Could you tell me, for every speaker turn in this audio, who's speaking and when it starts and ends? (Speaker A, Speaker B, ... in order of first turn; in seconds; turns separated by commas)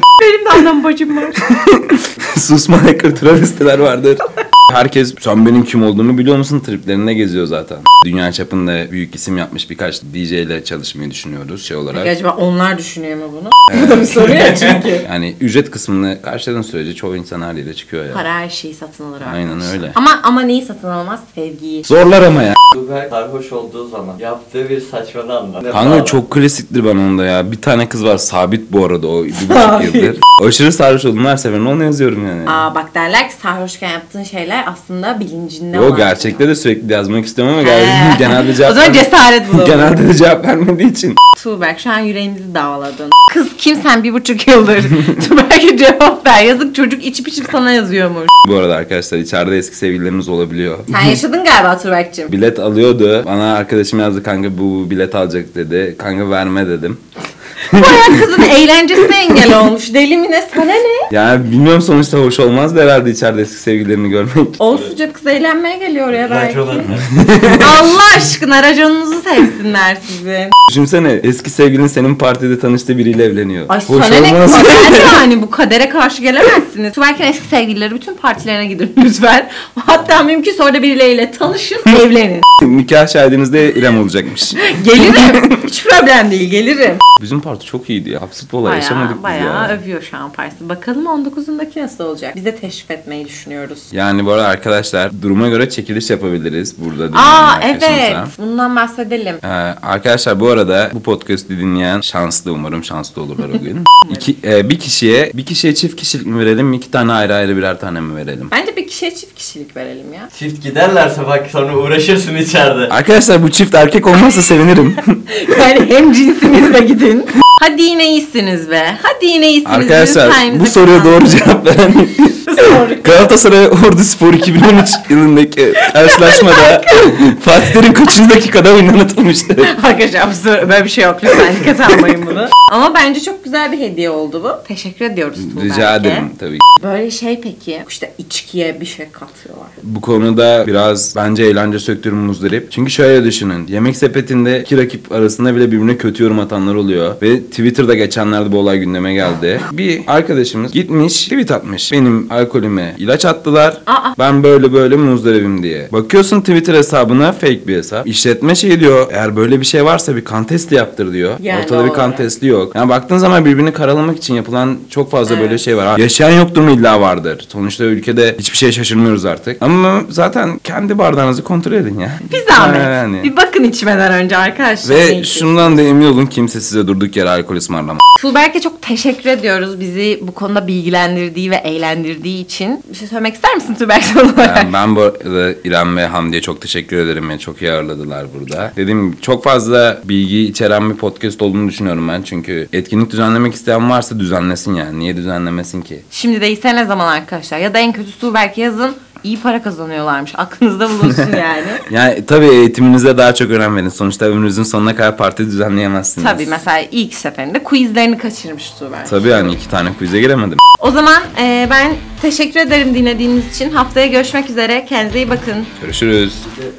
Speaker A: 0.2-1.4, Speaker B: 1.4-12.1, Speaker A: 11.9-15.1, Speaker B: 13.7-18.2, Speaker A: 18.1-21.9, Speaker B: 19.2-20.0, Speaker B: 21.9-22.6, Speaker C: 22.7-26.2, Speaker B: 25.7-32.7, Speaker A: 29.3-30.1, Speaker A: 32.5-36.5, Speaker B: 35.7-41.2, Speaker A: 37.6-40.0, Speaker A: 41.4-48.3, Speaker B: 48.4-51.2, Speaker A: 50.9-52.3, Speaker B: 52.3-57.0, Speaker B: 57.7-58.5, Speaker A: 57.7-61.1, Speaker B: 61.1-64.9, Speaker A: 64.6-67.0, Speaker C: 66.1-67.7, Speaker B: 67.2-67.6, Speaker A: 67.5-70.5, Speaker B: 70.7-75.2, Speaker A: 73.7-82.5, Speaker B: 82.6-85.7, Speaker A: 84.6-87.0, Speaker B: 87.2-89.8, Speaker A: 88.6-93.9, Speaker B: 93.9-98.3, Speaker A: 97.1-99.4, Speaker B: 99.4-108.5, Speaker A: 108.5-110.3, Speaker C: 110.3-112.9, Speaker B: 112.9-115.0, Speaker A: 115.3-121.5, Speaker B: 119.6-129.7, Speaker A: 122.5-123.4, Speaker A: 125.8-127.3, Speaker A: 129.6-136.3, Speaker B: 135.4-136.6, Speaker A: 136.8-139.8, Speaker B: 139.8-173.3, Speaker A: 153.9-154.2, Speaker A: 161.4-162.3, Speaker A: 165.2-165.6, Speaker A: 172.3-175.8, Speaker B: 174.8-178.0, Speaker A: 178.2-184.7, Speaker B: 184.4-196.0, Speaker A: 196.1-201.9, Speaker B: 201.0-206.6, Speaker A: 206.2-209.6, Speaker B: 209.1-210.6, Speaker A: 210.8-215.7, Speaker B: 215.8-216.5